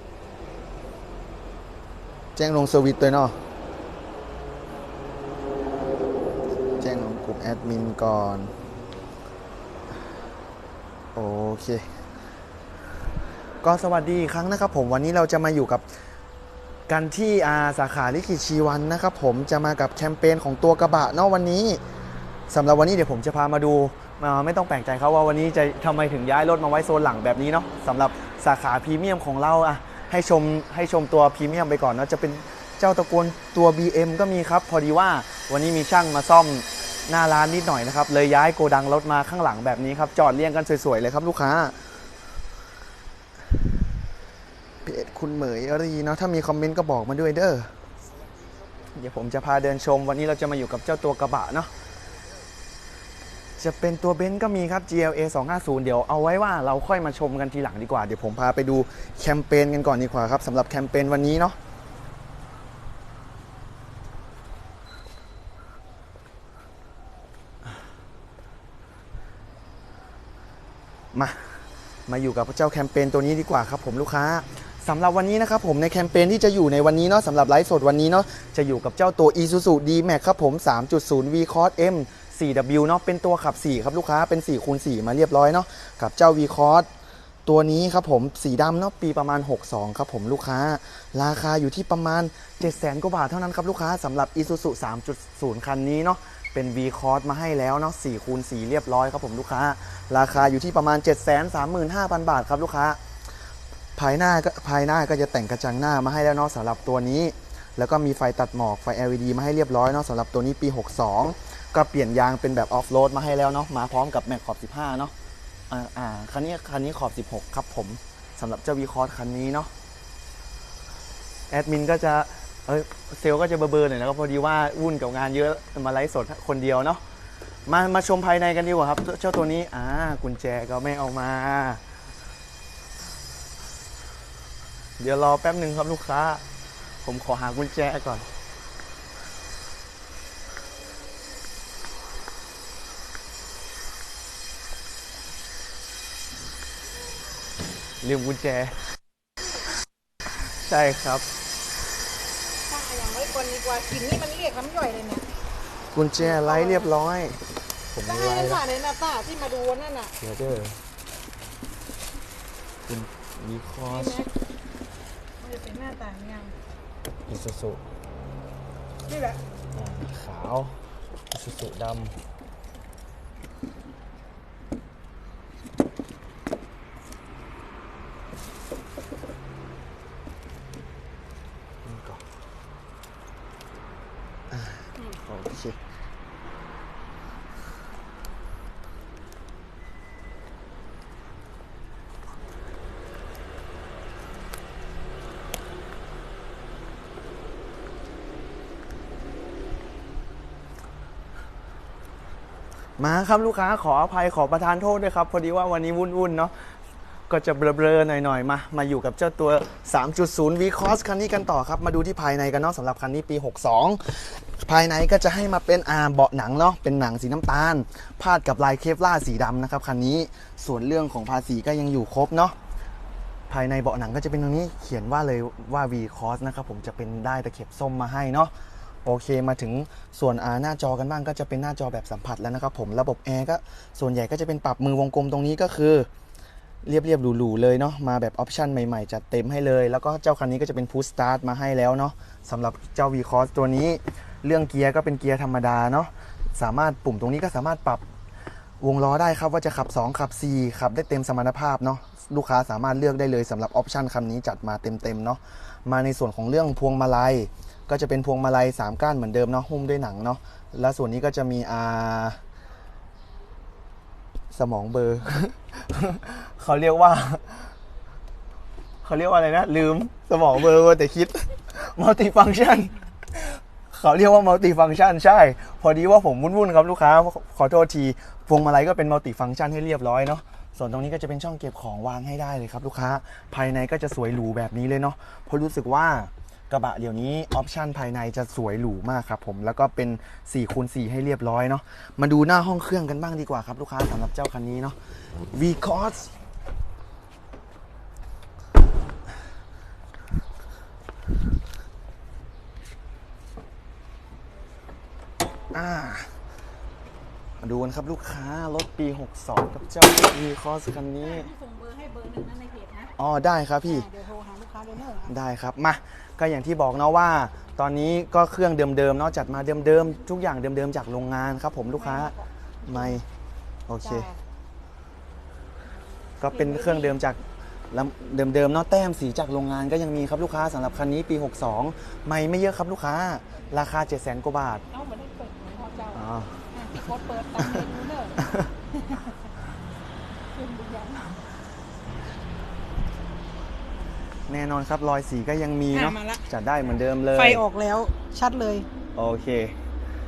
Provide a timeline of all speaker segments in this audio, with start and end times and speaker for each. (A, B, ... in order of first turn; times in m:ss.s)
0:02.4-0:03.4 A
0:06.8-0:08.5 A
0:11.2-0:11.9 A
0:13.6-0:15.8 A
0:16.9-0:21.8 A
0:22.5-0:41.8 A
0:44.8-0:47.7 A
0:48.9-0:51.7 A
0:53.6-1:01.6 A
1:11.1-1:26.9 A
1:27.5-1:43.0 A
1:44.0-1:55.1 A
1:55.7-1:59.7 A
2:01.5-2:07.0 A
2:07.7-2:11.8 A
2:15.0-2:16.4 A
2:17.0-2:18.3 A
2:28.0-2:28.8 A
2:30.5-2:31.3 A
2:32.7-2:35.3 B
2:35.9-2:38.6 A
2:36.2-2:36.9 B
2:38.0-2:40.2 B
2:40.2-2:40.8 A
2:42.9-2:44.2 A
2:43.9-2:44.3 B
2:45.4-2:46.6 B
2:47.3-2:47.8 A
2:49.1-2:49.4 B
2:49.8-2:52.2 A
3:01.8-3:02.2 A
3:04.5-3:05.8 A
3:23.0-3:26.6 A
3:27.3-3:42.6 A
3:43.5-3:48.5 A
3:49.0-3:56.1 A
3:56.8-4:08.0 A
4:08.8-4:22.4 A
4:24.5-4:27.7 A
4:29.0-4:55.0 A
4:55.5-4:56.3 A
5:05.7-5:06.3 A
5:07.6-5:11.5 A
5:11.2-5:13.1 B
5:13.2-5:14.1 A
5:13.9-5:15.3 B
5:15.3-5:22.3 A
5:22.0-5:23.2 B
5:22.9-5:23.2 A
5:23.9-5:24.3 A
5:24.0-5:24.4 B
5:26.4-5:27.4 A
5:26.4-5:27.2 B
5:27.9-5:34.8 A
5:34.9-5:38.4 B
5:36.1-5:36.6 A
5:38.4-5:38.7 A
5:38.9-5:39.5 B
5:40.5-5:41.4 B
5:44.5-5:47.6 A
5:45.9-5:46.5 B
5:47.3-5:48.9 B
5:49.2-5:49.8 A